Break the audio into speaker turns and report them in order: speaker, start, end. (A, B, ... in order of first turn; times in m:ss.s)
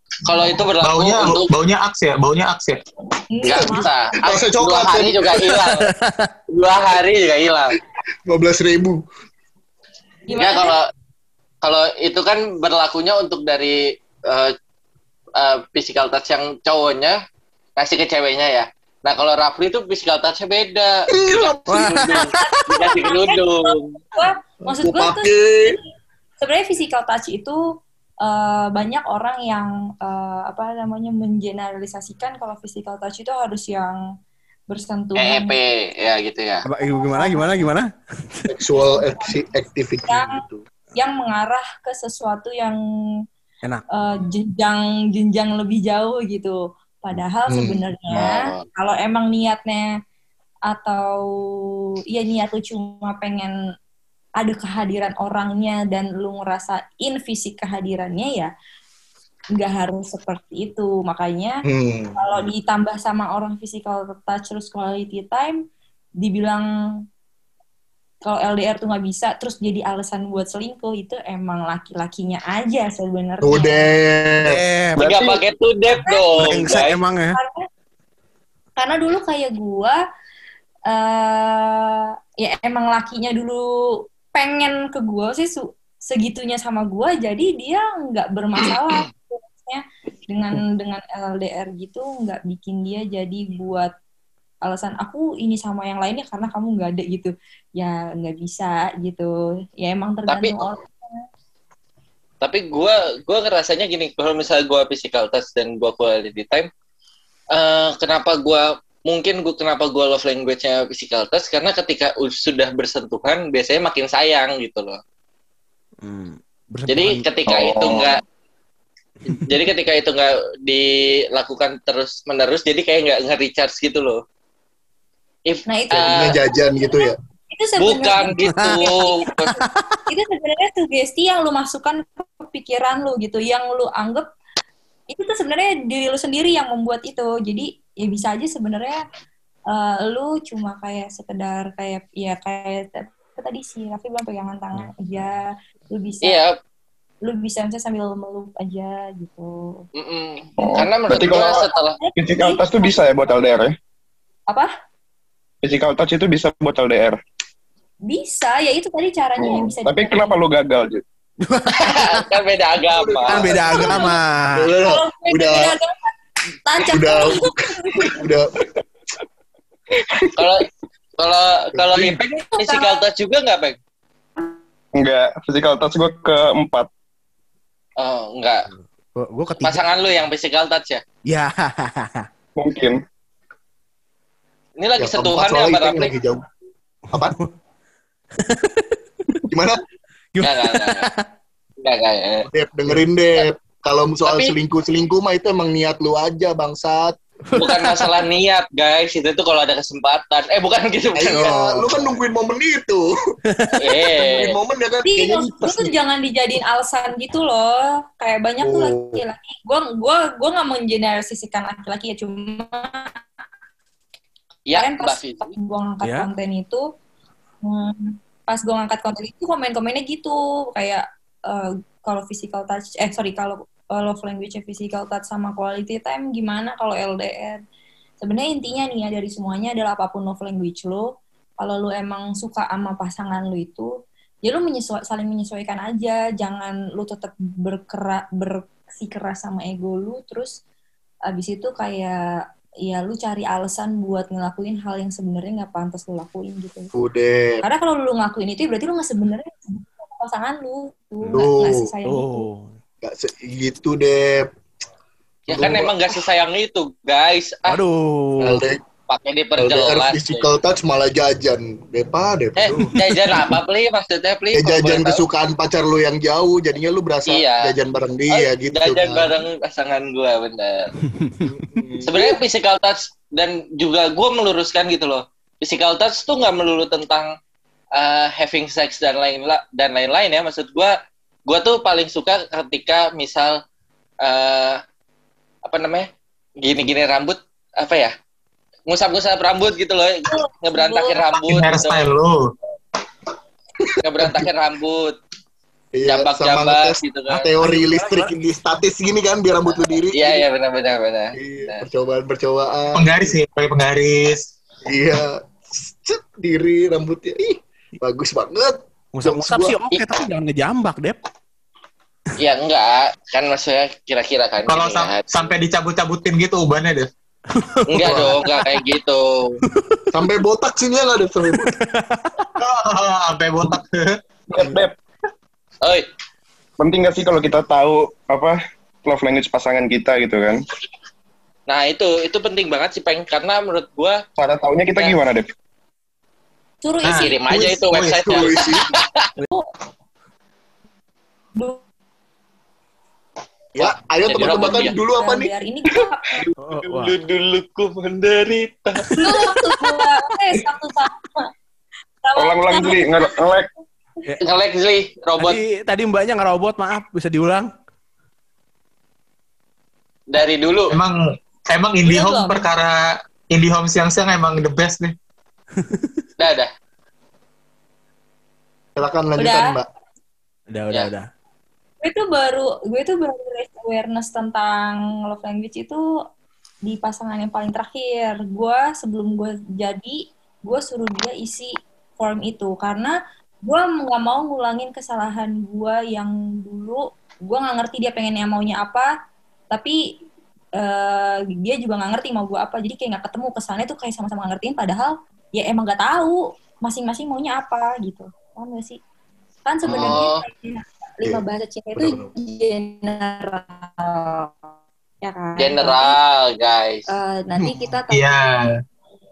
0:00.2-0:01.5 A
0:00.8-0:02.8 B
0:03.3-0:03.9 C
0:03.4-0:05.9 A
0:03.5-0:05.3 D
0:05.3-0:06.3 E
0:06.5-0:07.8 A
0:08.2-0:09.0 D
0:10.3-0:10.7 C
0:10.4-0:10.9 A
0:11.6-0:14.5 A
0:15.4-0:17.2 A
0:17.8-0:24.0 A
0:21.1-0:22.0 D
0:21.7-0:22.3 E
0:22.2-0:25.8 C
0:24.6-0:25.8 D
0:26.4-0:27.6 C
0:28.2-0:34.0 C
0:34.7-0:35.6 C
0:35.2-0:36.7 A
0:36.6-0:37.9 E
0:37.1-0:37.4 C
0:38.5-0:40.6 D
0:40.1-0:40.4 C
0:41.0-0:42.8 C
0:43.9-0:49.9 C
0:47.5-0:47.8 D
0:48.1-0:48.6 A
0:50.7-0:51.3 C
0:52.1-0:53.5 C
0:54.4-0:58.5 C
0:59.6-1:01.6 C
1:01.6-1:02.2 D
1:02.2-1:05.6 C
1:06.2-1:06.7 C
1:08.2-1:13.9 C
1:13.4-1:14.6 D
1:14.4-1:15.2 E
1:15.0-1:17.0 A
1:16.0-1:16.2 C
1:16.4-1:17.4 E
1:17.3-1:17.6 C
1:18.8-1:20.0 C
1:20.9-1:23.7 C
1:24.3-1:33.9 C
1:34.6-1:41.2 C
1:40.3-1:40.6 A
1:42.4-1:46.7 A
1:47.5-1:55.0 A
1:56.0-1:57.2 E
1:56.9-1:58.2 A
1:57.5-1:58.1 F
1:59.4-2:04.2 A
2:05.4-2:06.4 A
2:05.7-2:09.3 C
2:06.0-2:07.2 D
2:07.8-2:09.6 A
2:08.4-2:08.8 E
2:09.3-2:10.0 E
2:10.1-2:14.3 C
2:15.1-2:19.0 C
2:19.7-2:26.4 C
2:26.2-2:26.6 A
2:27.2-2:29.8 C
2:29.9-2:32.0 A
2:30.6-2:31.6 F
2:31.2-2:33.0 C
2:32.2-2:33.7 F
2:35.6-2:37.2 F
2:38.1-2:40.4 C
2:39.4-2:41.0 F
2:41.4-2:42.3 E
2:41.7-2:43.6 A
2:42.8-2:44.0 D
2:43.3-2:44.7 E
2:43.6-2:44.1 C
2:44.5-2:45.8 D
2:44.8-2:46.1 C
2:46.6-2:48.2 C
2:46.8-2:48.5 D
2:50.0-2:50.4 D
2:50.4-2:50.7 A
2:51.2-2:53.8 A
2:51.7-2:52.2 D
2:52.3-2:53.0 C
2:54.9-2:56.9 F
2:58.0-2:58.7 A
2:58.7-2:59.8 E
2:59.6-3:01.0 A
3:01.3-3:02.3 E
3:02.6-3:03.0 F
3:04.8-3:06.1 A
3:05.0-3:06.4 D
3:07.1-3:07.5 E
3:08.4-3:09.4 E
3:09.5-3:09.8 D
3:10.3-3:11.2 E
3:10.4-3:11.1 A
3:11.8-3:12.4 A
3:12.4-3:17.1 D
3:14.3-3:14.6 A
3:17.5-3:18.2 E
3:17.6-3:21.8 A
3:21.2-3:23.1 D
3:23.5-3:24.0 E
3:23.8-3:24.5 A
3:24.1-3:25.9 D
3:25.0-3:33.1 C
3:28.6-3:29.2 D
3:34.7-3:35.5 A
3:34.8-3:36.8 C
3:36.0-3:36.3 E
3:37.6-3:47.6 C
3:48.2-3:53.9 C
3:54.4-4:00.6 C
4:01.3-4:02.2 C
4:02.8-4:06.9 C
4:06.9-4:07.6 D
4:07.6-4:12.4 C
4:11.3-4:11.8 D
4:12.0-4:12.7 E
4:13.0-4:14.5 D
4:15.5-4:17.8 A
4:15.5-4:16.0 D
4:17.6-4:18.7 E
4:18.4-4:18.8 D
4:19.1-4:20.5 A
4:19.6-4:22.9 D
4:22.6-4:25.2 A
4:24.5-4:29.3 D
4:27.3-4:27.7 A
4:28.3-4:30.9 A
4:31.1-4:31.9 E
4:31.4-4:32.3 D
4:32.0-4:37.3 A
4:37.9-4:41.0 A
4:41.5-4:43.6 A
4:44.2-4:44.8 A
4:45.6-4:46.1 A
4:46.6-4:48.1 A
4:48.9-4:52.0 A
4:50.3-4:51.4 C
4:51.5-4:52.5 B
4:54.0-4:55.2 A
4:54.2-4:54.5 D
4:55.9-5:00.4 D
4:56.0-4:57.5 A
4:57.6-4:58.3 E
5:00.1-5:01.9 A
5:01.4-5:03.4 D
5:02.9-5:04.5 B
5:04.8-5:09.8 D
5:09.1-5:11.2 E
5:09.9-5:10.2 A
5:12.4-5:15.5 A
5:14.6-5:17.1 B
5:17.5-5:18.8 E
5:17.9-5:19.6 A
5:18.0-5:18.3 D
5:19.6-5:20.0 E
5:20.1-5:21.7 D
5:21.5-5:22.5 E
5:22.6-5:24.2 B
5:24.5-5:24.9 F
5:26.8-5:30.6 F
5:31.7-5:34.2 A
5:34.4-5:35.5 F
5:36.8-5:37.3 C
5:37.0-5:38.7 B
5:37.2-5:39.2 A
5:38.3-5:38.8 D
5:41.6-5:41.8 C
5:43.7-5:45.5 D
5:43.8-5:44.9 A
5:44.8-5:46.4 C
5:46.3-5:49.0 A
5:46.6-5:47.1 E
5:49.1-5:49.4 E
5:49.2-5:51.4 C
5:52.2-5:53.3 C
5:52.4-5:53.7 F
5:54.4-5:55.6 A
5:55.4-5:57.7 E
6:00.3-6:01.0 A
6:00.9-6:05.1 B
6:02.0-6:02.6 C
6:05.8-6:06.2 E
6:06.4-6:06.7 A
6:09.0-6:09.9 D
6:09.4-6:09.7 C
6:10.7-6:11.3 E
6:12.0-6:16.0 C
6:16.9-6:23.1 C
6:23.6-6:29.1 C
6:30.8-6:39.0 C
6:39.6-6:44.6 C
6:39.9-6:40.2 D
6:39.9-6:40.4 A
6:41.9-6:42.3 D
6:45.2-6:46.2 C
6:45.6-6:47.1 A
6:47.1-6:48.3 C
6:48.1-6:48.8 B